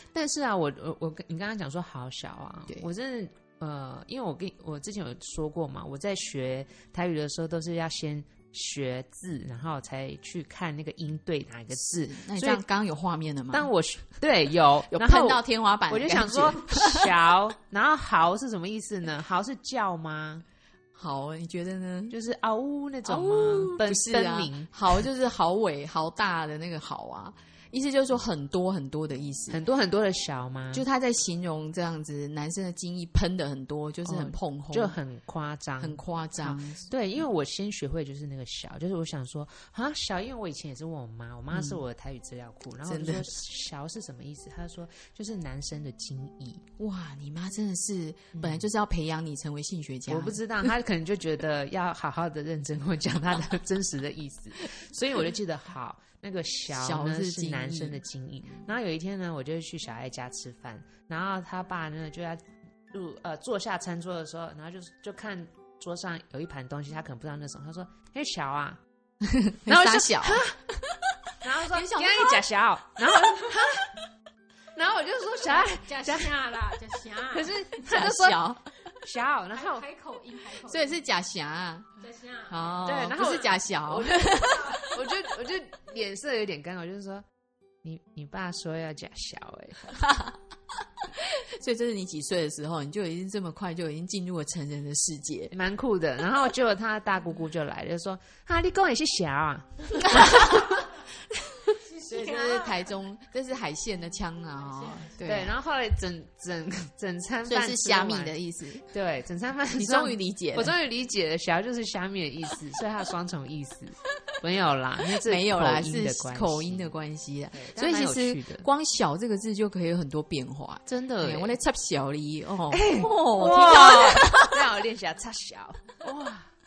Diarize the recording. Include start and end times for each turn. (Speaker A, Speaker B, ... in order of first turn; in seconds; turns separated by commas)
Speaker A: 0.1-12.6, Speaker B: 11.7-13.7, Speaker A: 13.5-20.4, Speaker B: 14.9-17.1, Speaker B: 20.9-22.1, Speaker A: 22.1-25.0, Speaker B: 23.0-29.6, Speaker A: 29.5-30.8, Speaker B: 30.7-35.0, Speaker A: 34.0-46.6, Speaker B: 35.8-36.9, Speaker B: 41.5-41.8, Speaker B: 42.8-43.3, Speaker B: 46.8-50.7, Speaker A: 48.3-48.6, Speaker A: 50.1-68.8, Speaker B: 56.7-58.0, Speaker B: 69.2-70.4, Speaker A: 69.7-70.6, Speaker A: 71.4-73.8, Speaker B: 71.7-72.4, Speaker A: 74.7-76.3, Speaker C: 75.5-77.5, Speaker A: 77.3-79.8, Speaker B: 77.8-78.6, Speaker C: 79.5-81.0, Speaker B: 80.6-82.0, Speaker C: 82.0-83.4, Speaker B: 82.5-84.8, Speaker A: 82.8-87.2, Speaker C: 84.0-84.9, Speaker A: 87.8-89.9, Speaker B: 90.0-90.3, Speaker B: 91.1-95.5, Speaker A: 95.5-100.5, Speaker B: 100.0-100.9, Speaker B: 101.5-105.5, Speaker C: 101.9-102.8, Speaker C: 104.6-105.1, Speaker A: 105.2-108.3, Speaker B: 107.5-108.8, Speaker A: 108.9-116.9, Speaker B: 109.7-110.7, Speaker B: 115.2-124.5, Speaker A: 117.5-118.7, Speaker A: 120.9-121.5, Speaker A: 122.7-126.5